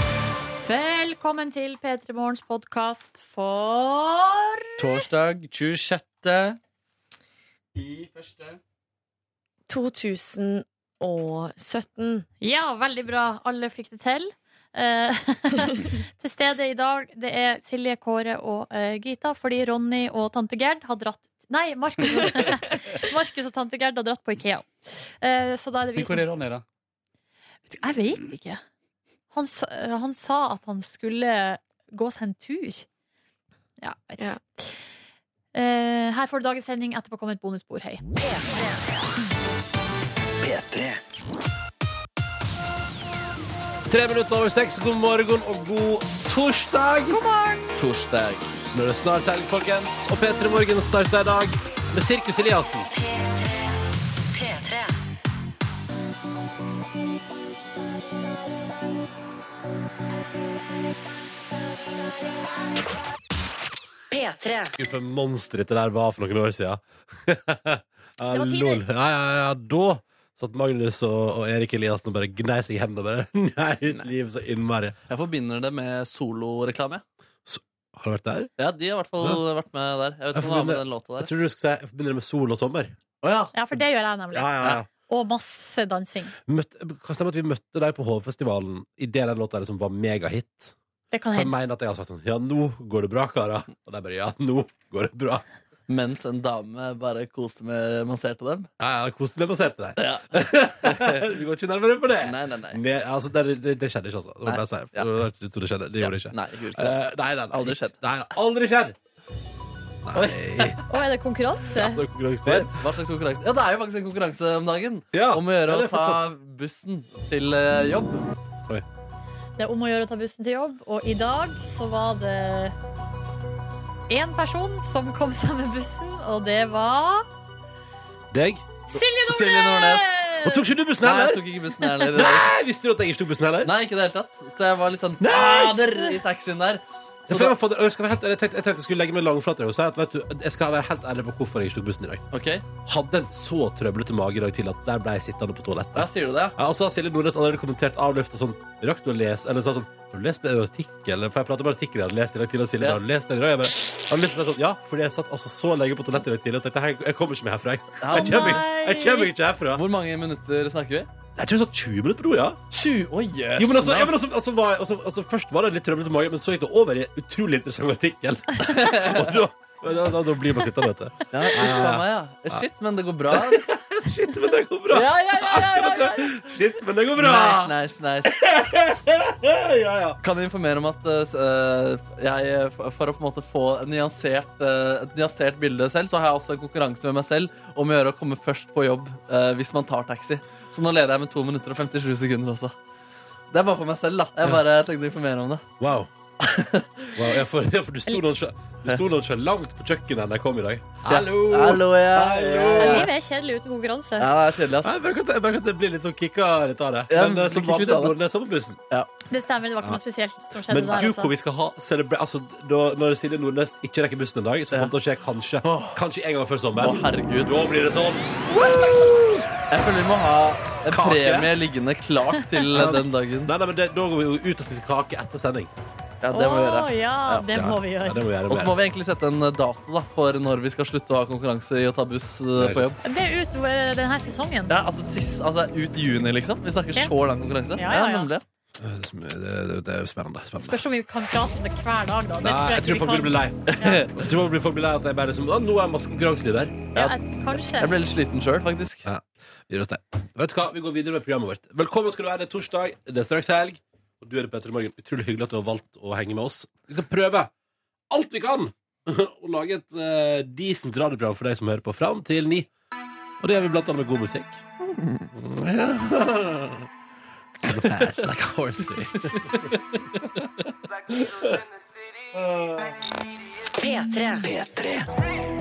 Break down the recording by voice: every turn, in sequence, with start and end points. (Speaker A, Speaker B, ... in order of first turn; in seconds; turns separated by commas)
Speaker A: 0.6-5.0, Speaker B: 4.8-6.6, Speaker B: 7.8-8.6, Speaker C: 9.7-12.2, Speaker A: 12.4-26.2, Speaker B: 26.0-26.6, Speaker A: 27.7-28.6, Speaker A: 29.3-32.9, Speaker A: 33.8-34.8, Speaker A: 35.5-38.0, Speaker D: 38.3-38.6, Speaker E: 43.9-47.2, Speaker A: 47.1-47.7, Speaker F: 47.8-48.5, Speaker E: 48.7-52.9, Speaker D: 54.3-54.9, Speaker D: 64.1-64.8, Speaker E: 64.8-75.0, Speaker A: 68.3-68.8, Speaker F: 75.1-77.0, Speaker E: 77.5-78.5, Speaker F: 78.6-81.3, Speaker E: 80.3-83.0, Speaker F: 83.2-83.5, Speaker A: 83.5-84.5, Speaker E: 84.3-84.9, Speaker A: 85.1-86.3, Speaker E: 86.5-90.8, Speaker A: 91.1-91.5, Speaker E: 91.3-95.5, Speaker F: 95.9-98.7, Speaker E: 98.8-109.0, Speaker F: 100.0-101.3, Speaker F: 102.2-102.8, Speaker F: 104.5-105.1, Speaker F: 106.0-107.0, Speaker F: 107.5-108.0, Speaker E: 110.0-110.8, Speaker F: 110.1-110.8, Speaker A: 110.9-112.0, Speaker E: 111.7-112.8, Speaker F: 112.5-118.3, Speaker E: 115.1-116.2, Speaker A: 119.6-122.8, Speaker A: 124.1-127.3, Speaker E: 128.3-128.7, Speaker A: 128.9-130.7, Speaker F: 129.3-130.3, Speaker E: 130.4-131.4, Speaker F: 131.0-132.5, Speaker E: 132.1-133.7, Speaker F: 133.6-137.6, Speaker E: 135.2-135.9, Speaker E: 137.3-142.2, Speaker F: 142.3-142.7, Speaker E: 142.8-159.8, Speaker F: 145.9-146.6, Speaker F: 158.0-158.7, Speaker A: 158.1-159.3, Speaker F: 159.7-161.1, Speaker E: 161.4-162.6, Speaker F: 162.7-164.2, Speaker E: 163.6-172.6, Speaker F: 168.7-169.4, Speaker F: 171.3-173.7, Speaker E: 173.3-180.2, Speaker F: 174.9-176.5, Speaker F: 177.2-178.3, Speaker F: 180.2-192.8, Speaker F: 193.5-195.7, Speaker E: 195.8-196.1, Speaker F: 196.4-197.3, Speaker E: 197.1-203.1, Speaker F: 201.1-203.1, Speaker A: 202.8-204.3, Speaker F: 204.2-204.9, Speaker E: 204.8-208.8, Speaker F: 207.1-208.2, Speaker A: 209.3-211.3, Speaker E: 210.7-219.4, Speaker F: 215.6-216.0, Speaker F: 216.8-217.7, Speaker F: 218.5-223.5, Speaker E: 220.9-221.5, Speaker E: 222.7-225.7, Speaker F: 226.2-227.4, Speaker A: 226.3-228.2, Speaker E: 227.5-228.8, Speaker F: 228.5-233.0, Speaker E: 232.6-232.9, Speaker A: 233.0-234.7, Speaker F: 234.7-238.4, Speaker A: 237.8-238.3, Speaker E: 238.8-240.8, Speaker A: 240.6-244.0, Speaker E: 242.4-247.1, Speaker F: 243.7-244.2, Speaker A: 246.9-247.9, Speaker F: 247.8-249.1, Speaker E: 249.1-257.5, Speaker E: 258.1-262.7, Speaker E: 263.4-264.6, Speaker E: 265.2-266.9, Speaker E: 267.6-269.8, Speaker F: 269.2-270.7, Speaker E: 271.1-271.7, Speaker E: 272.3-273.0, Speaker D: 273.8-274.6